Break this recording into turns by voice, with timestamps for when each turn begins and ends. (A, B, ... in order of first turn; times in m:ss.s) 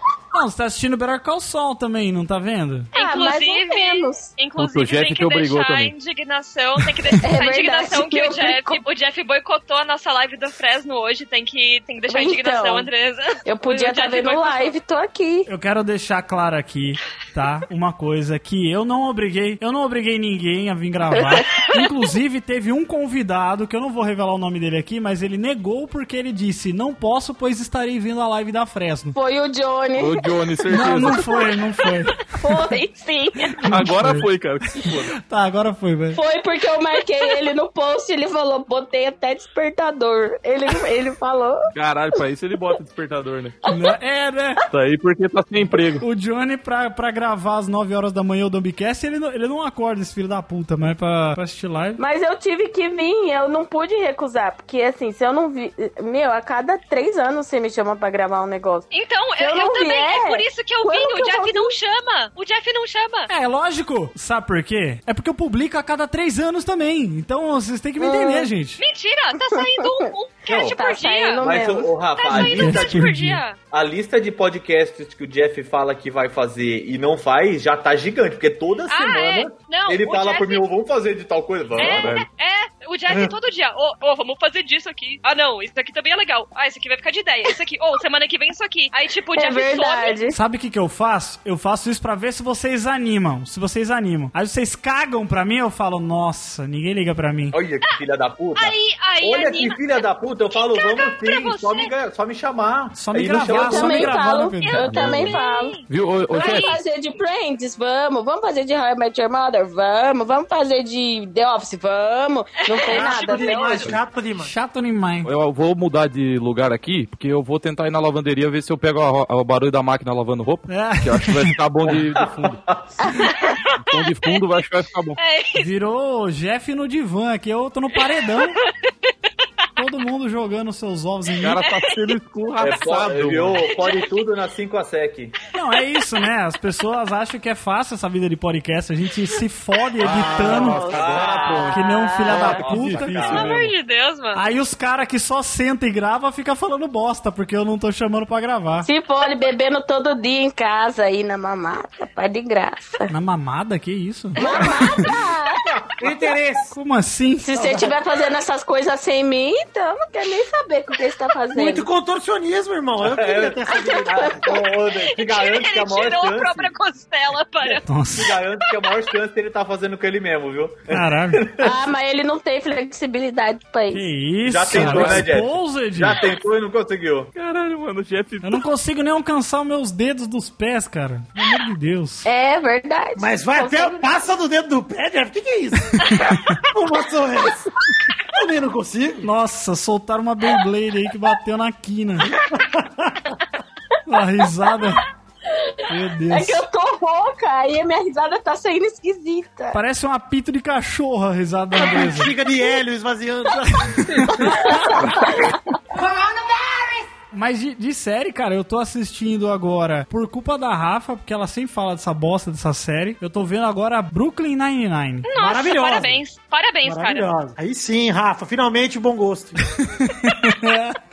0:00.3-0:02.9 A
0:02.9-0:14.7 B
0:02.9-0:04.3 C
0:04.6-0:05.9 D
0:07.2-0:08.8 C
0:12.1-0:12.9 C
0:13.4-0:15.5 C
0:15.5-0:29.2 A
0:21.2-0:21.4 C
0:29.1-0:30.6 C
0:30.0-0:31.5 D
0:30.7-0:32.6 A
0:32.3-0:33.6 C
0:33.6-0:34.3 A
0:33.6-0:35.2 D
0:35.2-0:36.2 A
0:36.1-0:42.2 C
0:41.7-0:43.6 D
0:43.7-0:44.6 A
0:44.7-0:46.0 D
0:46.0-0:52.0 A
0:52.0-0:58.9 C
0:58.9-1:03.3 B
0:59.4-1:01.7 C
1:03.3-1:08.8 A
1:08.0-1:08.5 C
1:08.8-1:11.5 B
1:09.4-1:10.1 C
1:10.5-1:10.8 E
1:10.6-1:11.9 C
1:11.4-1:13.1 E
1:12.1-1:13.6 B
1:12.3-1:13.4 A
1:13.7-1:22.2 E
1:18.9-1:20.7 B
1:21.8-1:22.2 D
1:21.8-1:30.2 B
1:23.1-1:23.3 F
1:29.3-1:30.4 C
1:30.3-1:37.6 A
1:37.5-1:44.2 E
1:38.6-1:41.9 B
1:42.9-1:44.9 A
1:43.5-1:45.8 C
1:44.6-1:46.8 B
1:44.8-1:46.8 D
1:46.3-1:53.9 C
1:52.7-1:53.9 B
1:52.9-1:54.5 F
1:54.4-1:55.3 A
1:55.2-2:02.6 D
2:00.7-2:01.6 A
2:01.9-2:03.0 E
2:03.2-2:04.4 B
2:03.8-2:05.2 D
2:05.2-2:05.7 B
2:05.6-2:08.6 A
2:07.9-2:09.1 B
2:09.8-2:11.6 A
2:11.4-2:13.7 D
2:11.6-2:12.2 B
2:12.6-2:15.4 E
2:13.7-2:14.2 B
2:15.5-2:20.8 A
2:20.0-2:21.6 D
2:20.2-2:22.6 C
2:20.4-2:23.6 E
2:21.0-2:21.6 F
2:21.6-2:23.5 A
2:22.4-2:23.7 D
2:23.3-2:24.4 B
2:24.3-2:28.9 A
2:28.8-2:33.1 C
2:33.1-2:34.4 A
2:34.4-2:35.6 C
2:34.4-2:35.0 F
2:35.7-2:36.1 E
2:36.0-2:36.7 F
2:36.7-2:37.8 A
2:37.5-2:41.9 C
2:37.5-2:38.0 F
2:41.5-2:44.6 F
2:43.0-2:46.7 E
2:43.7-2:44.5 C
2:45.1-2:47.8 B
2:47.8-2:48.4 A
2:48.1-2:51.7 E
2:48.7-2:49.0 B
2:50.9-2:51.4 A
2:51.6-2:54.1 C
2:53.9-2:56.2 A
2:54.4-2:57.3 E
2:54.8-2:55.2 D
2:57.3-2:58.6 D
2:58.4-3:02.3 A
3:02.2-3:04.0 C
3:03.2-3:06.1 F
3:06.0-3:06.6 A
3:06.6-3:07.7 F
3:08.3-3:09.3 F
3:09.2-3:12.3 A
3:12.5-3:13.3 F
3:14.0-3:15.0 A
3:15.5-3:19.8 C
3:15.9-3:16.6 A
3:19.7-3:22.3 A
3:21.8-3:24.5 F
3:23.7-3:24.9 A
3:24.4-3:25.5 C
3:27.3-3:35.3 A
3:35.2-3:37.3 B
3:35.3-3:36.2 F
3:36.8-3:39.6 F
3:39.8-3:41.0 A